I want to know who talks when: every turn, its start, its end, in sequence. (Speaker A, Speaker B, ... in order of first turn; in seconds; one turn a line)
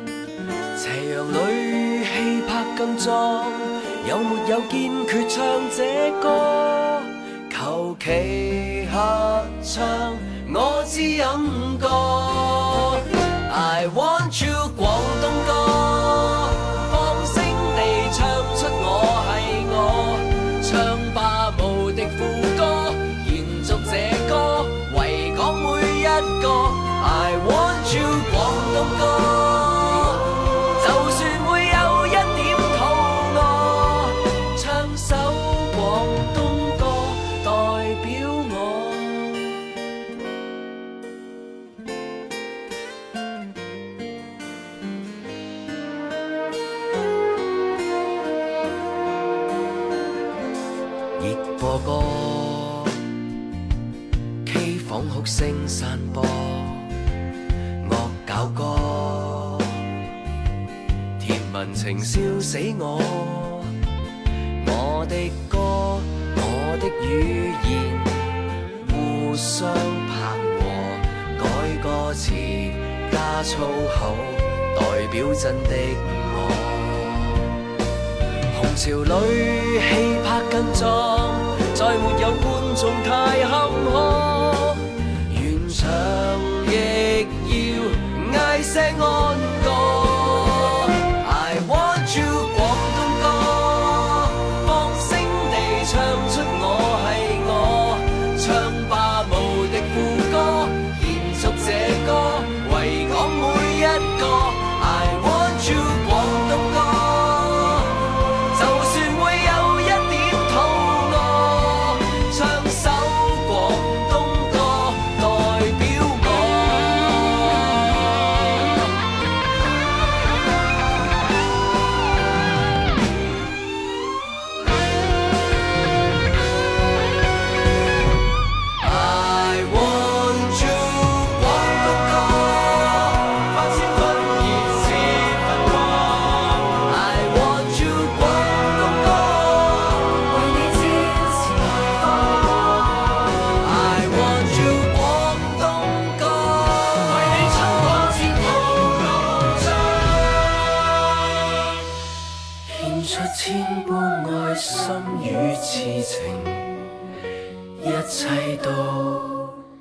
Speaker A: 0.7-39.6
Speaker A: 51.2-53.0
Speaker A: 54.4-56.9
Speaker A: 57.8-59.8
Speaker A: 61.2-63.7
Speaker A: 64.6-77.5
Speaker A: 78.5-118.5
Speaker A: 128.8-150.3
Speaker A: 152.7-156.8
Speaker A: 157.8-159.6